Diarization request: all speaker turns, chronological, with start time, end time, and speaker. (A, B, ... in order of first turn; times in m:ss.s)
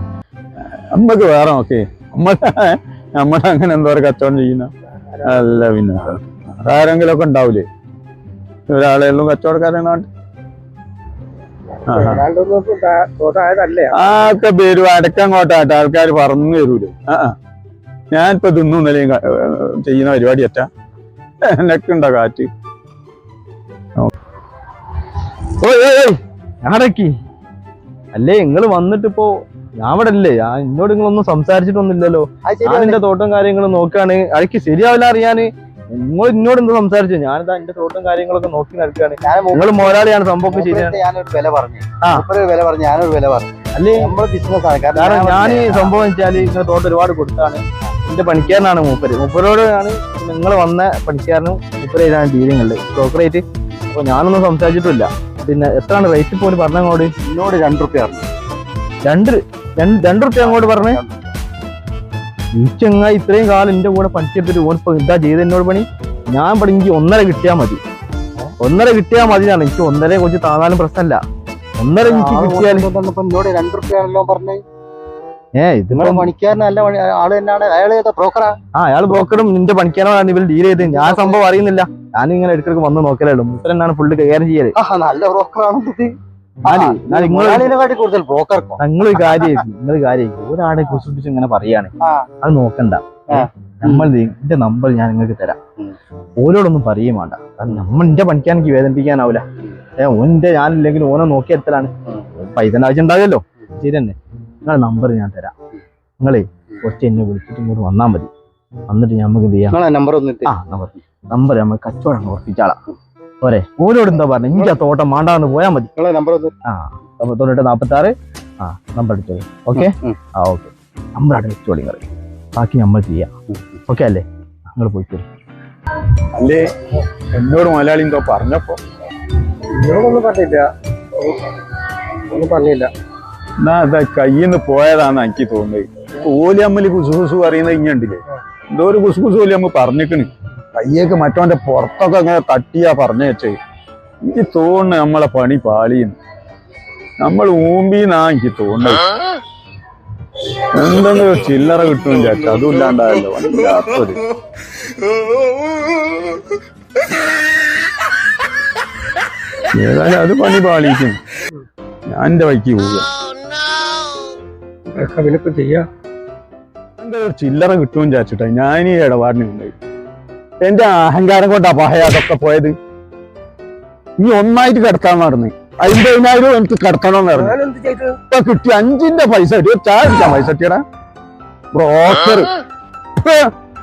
0:00.6-0:07.7 A
0:05.2-0:05.5 B
0:08.7-0:10.1 A
0:11.9-0:14.0 B
0:11.9-0:12.3 A
0:13.9-0:17.4 A
0:18.1-0:20.7 A
0:21.4-0:22.5 A
0:25.6-0:27.1 C
0:28.1-0:41.0 C
0:32.4-0:33.0 D
0:39.2-0:46.0 D
0:43.8-0:44.1 C
0:44.9-0:57.1 C
0:57.3-0:58.2 D
0:59.0-1:01.0 C
1:00.2-1:01.3 D
1:02.5-1:07.8 C
1:08.6-1:11.2 C
1:11.8-1:12.9 C
1:12.0-1:14.6 D
1:15.6-1:16.3 C
1:15.9-1:18.6 D
1:18.8-1:24.8 C
1:20.8-1:21.5 D
1:24.8-1:26.1 D
1:26.6-1:28.8 D
1:26.7-1:27.7 C
1:28.8-1:35.6 C
1:32.0-1:32.3 D
1:33.3-1:34.1 D
1:36.4-1:39.4 C
1:40.0-1:45.5 C
1:46.2-1:48.3 C
1:48.9-1:49.8 C
1:49.7-1:50.5 D
1:50.5-1:52.8 C
1:53.4-1:55.9 C
1:56.0-1:56.5 D
1:56.7-2:02.0 C
1:59.8-2:00.2 D
2:02.6-2:03.3 C
2:03.9-2:05.3 C
2:06.3-2:06.7 A
2:07.3-2:08.8 A
2:09.7-2:11.5 B
2:12.3-2:12.9 B
2:13.6-2:23.6 A
2:24.2-2:26.2 A
2:27.2-2:29.1 A
2:30.7-2:34.3 A
2:39.7-2:41.2 A
2:42.1-2:43.1 A
2:44.9-2:45.9 B
2:47.0-2:49.7 A
2:50.6-2:52.8 A
2:54.2-2:57.6 A
2:57.4-2:58.2 B
2:58.3-3:00.8 A
3:01.7-3:02.6 A
3:03.2-3:03.5 A